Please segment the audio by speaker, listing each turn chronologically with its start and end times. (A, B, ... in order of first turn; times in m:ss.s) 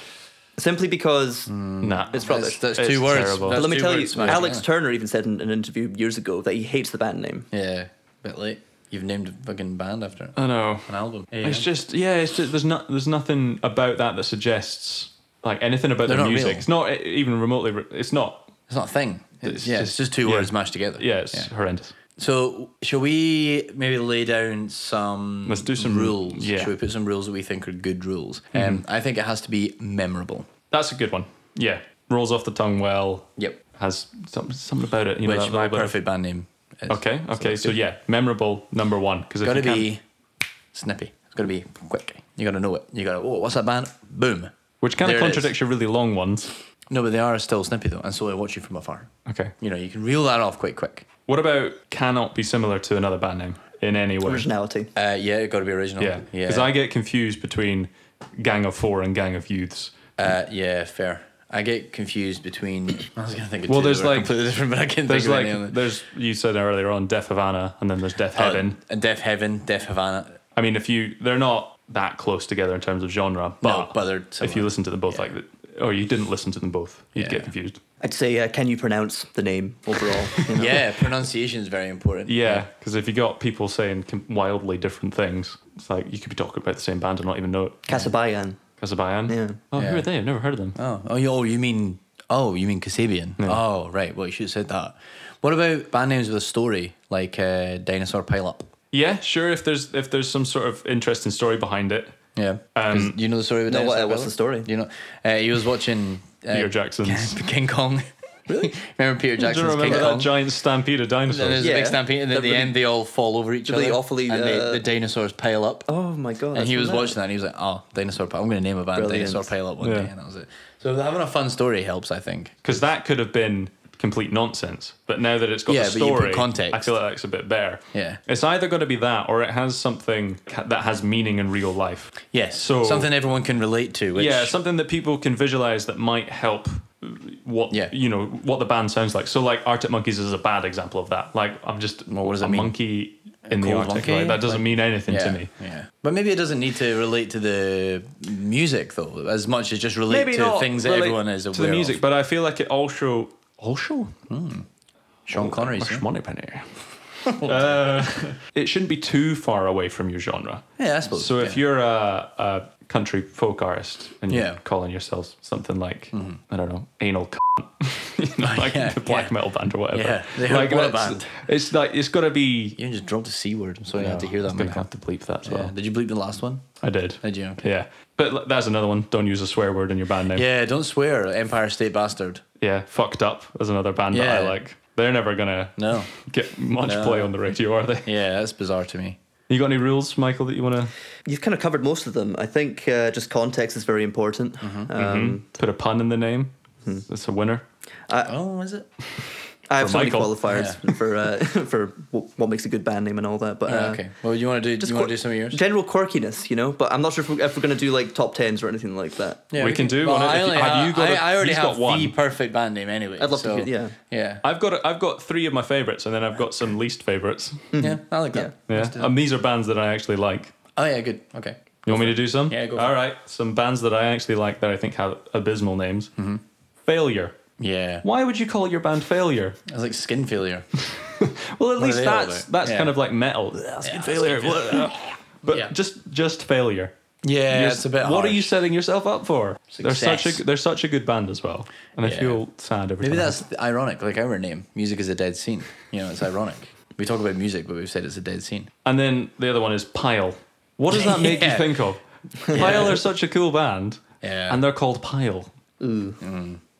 0:00.6-0:01.5 A
0:01.5-0:04.6 B
0:01.8-0:04.4 C
0:02.1-0:02.6 A
0:03.5-0:07.5 A
0:07.5-0:11.7 B
0:10.4-0:18.5 C
0:16.0-0:16.7 B
0:18.7-0:21.5 B
0:19.4-0:21.9 C
0:22.2-0:30.5 B
0:25.4-0:26.7 C
0:28.5-0:28.8 C
0:30.7-0:36.0 C
0:35.2-0:37.8 B
0:36.9-0:39.9 C
0:39.4-0:40.0 B
0:40.7-0:45.5 B
0:44.8-0:46.5 C
0:46.9-0:51.1 B
0:49.2-0:49.5 C
0:51.3-0:54.5 C
0:54.2-0:54.9 A
0:54.9-0:56.7 B
0:56.0-1:00.0 C
1:00.2-1:05.8 B
1:03.7-1:04.3 C
1:05.0-1:08.8 C
1:08.3-1:10.4 B
1:10.5-1:17.8 C
1:13.6-1:15.3 B
1:17.1-1:17.5 B
1:18.0-1:20.8 A
1:20.5-1:22.6 B
1:22.3-1:28.1 C
1:27.9-1:28.6 A
1:28.8-1:30.8 C
1:29.3-1:29.6 A
1:29.8-1:30.1 B
1:30.7-1:38.7 B
1:38.9-1:42.2 C
1:42.4-1:50.4 B
1:42.7-1:43.2 C
1:43.7-1:44.7 A
1:46.5-1:47.4 C
1:49.4-1:51.7 C
1:51.3-1:55.9 B
1:51.6-1:52.7 A
1:53.6-1:54.8 A
1:55.9-1:57.2 A
1:56.5-2:02.8 B
1:58.9-1:59.5 A
1:59.8-2:00.1 C
2:02.6-2:13.1 C
2:05.7-2:06.9 B
2:07.9-2:08.2 B
2:12.3-2:14.5 B
2:14.1-2:25.5 C
2:22.1-2:22.7 B
2:23.4-2:32.0 B
2:30.1-2:34.1 C
2:34.3-2:34.6 B
2:35.3-2:36.0 B
2:35.3-2:52.8 C
2:37.3-2:37.7 B
2:40.8-2:41.6 B
2:44.3-2:44.6 B
2:46.1-2:46.4 B
2:48.4-2:49.3 B
2:49.9-2:51.4 B
2:52.8-2:54.9 B
2:53.9-2:55.7 C
2:55.4-2:57.6 B
2:56.8-3:00.4 C
3:00.3-3:02.4 B
3:02.6-3:08.1 C
3:04.1-3:04.6 B
3:05.8-3:06.1 B
3:06.8-3:07.3 B
3:08.0-3:09.2 B
3:09.5-3:10.9 C
3:11.2-3:15.4 A
3:14.6-3:14.9 B
3:14.9-3:16.5 C
3:17.1-3:17.6 C
3:18.1-3:18.3 A
3:18.2-3:18.8 B
3:19.7-3:24.0 A
3:19.8-3:20.4 C
3:20.4-3:20.8 B
3:23.6-3:25.6 B
3:24.8-3:29.5 A
3:29.5-3:34.4 B
3:29.6-3:32.1 C
3:33.2-3:33.9 A
3:34.4-3:37.7 C
3:37.7-3:38.5 A
3:37.8-3:39.2 B
3:38.7-3:40.5 C
3:40.8-3:43.0 B
3:41.8-3:46.1 C
3:46.2-3:46.4 B
3:46.8-3:47.4 C
3:47.6-3:48.0 B
3:48.0-3:49.6 C
3:49.7-3:50.6 B
3:50.9-3:56.9 C
3:51.8-3:52.9 B
3:53.8-3:55.7 B
3:57.2-3:58.5 B
3:57.5-4:03.4 C
3:59.7-4:00.4 B
4:02.0-4:02.4 B
4:03.0-4:08.7 B
4:08.8-4:15.5 C
4:10.9-4:11.8 B
4:12.4-4:12.8 A
4:12.5-4:13.0 B
4:14.2-4:14.6 B
4:15.8-4:16.2 A
4:16.2-4:16.6 B